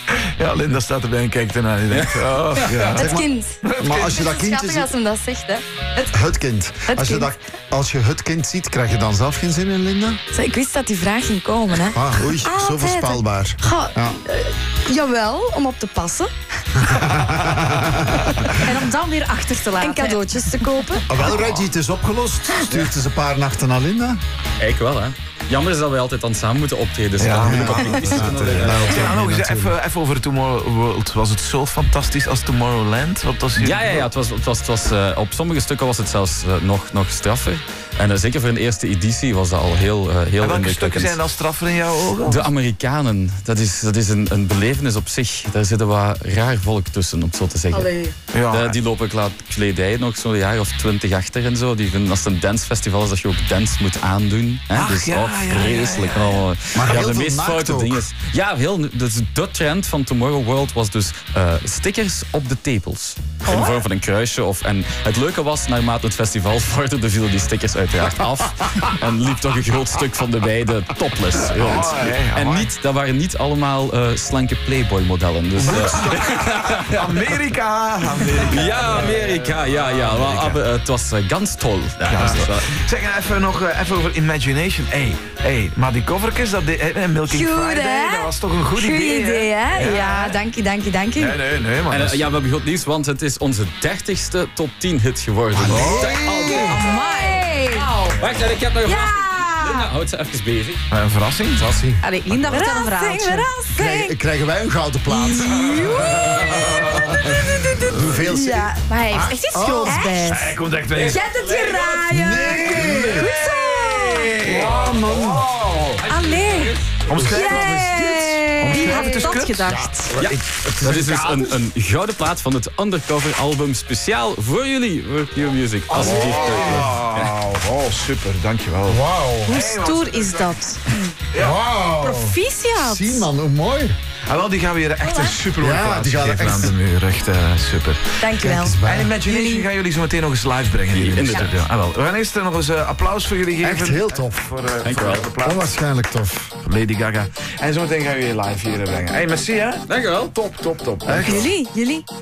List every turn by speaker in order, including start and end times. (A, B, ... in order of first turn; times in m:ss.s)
0:00.3-0:04.3 A
0:01.9-0:02.9 B
0:02.8-0:04.9 C
0:02.9-0:06.2 D
0:06.1-0:10.2 C
0:06.9-0:07.3 D
0:10.3-0:17.1 D
0:11.9-0:14.2 C
0:16.8-0:18.5 C
0:18.1-0:18.6 D
0:18.6-0:20.9 E
0:19.8-0:21.4 D
0:21.1-0:24.2 C
0:24.6-0:29.2 B
0:27.2-0:34.1 A
0:27.3-0:29.7 C
0:33.6-0:41.2 B
0:40.4-0:42.5 A
0:42.2-0:47.9 B
0:47.7-0:48.1 D
0:48.3-0:48.8 A
0:48.5-1:17.0 B
0:54.7-0:56.4 A
0:56.7-0:58.0 C
1:03.5-1:03.8 D
1:11.6-1:12.7 A
1:15.6-1:20.6 A
1:18.4-1:22.8 B
1:22.0-1:30.4 A
1:27.3-1:31.4 D
1:31.2-1:32.2 A
1:31.9-1:37.0 B
1:35.6-1:36.8 C
1:35.6-1:36.2 A
1:36.5-1:38.3 E
1:36.6-1:38.2 D
1:38.1-1:40.8 B
1:38.8-1:39.5 D
1:38.9-1:39.9 E
1:40.9-1:41.6 A
1:41.6-1:42.0 C
1:42.0-1:43.6 E
1:42.5-1:44.1 D
1:43.7-1:50.4 C
1:45.1-1:47.1 D
1:45.6-1:46.4 E
1:46.3-1:47.1 A
1:47.4-1:47.7 E
1:47.9-1:48.1 A
1:48.2-1:54.4 D
1:49.8-1:50.3 E
1:50.2-1:51.3 A
1:51.0-1:52.0 B
1:51.2-1:54.4 E
1:52.1-1:53.3 C
1:52.7-1:56.0 A
1:54.4-1:55.5 C
1:54.5-1:57.2 B
1:56.1-2:00.1 E
1:57.1-2:01.5 A
1:57.2-1:57.9 C
1:57.2-1:59.6 D
1:59.6-2:01.3 C
2:00.2-2:07.3 B
2:05.9-2:10.6 A
2:05.9-2:07.0 C
2:08.9-2:09.6 C
2:09.5-2:10.8 E
2:11.3-2:11.6 A
2:11.4-2:14.0 C
2:12.0-2:13.3 E
2:14.3-2:18.2 A
2:15.0-2:15.4 D
2:15.6-2:16.8 C
2:18.2-2:19.6 D
2:18.4-2:19.2 C
2:18.8-2:25.7 A
2:20.9-2:21.6 B
2:23.6-2:24.5 C
2:24.8-2:25.3 B
2:25.4-2:26.5 C
2:26.6-2:31.5 A
2:29.9-2:30.3 B
2:31.2-2:32.0 D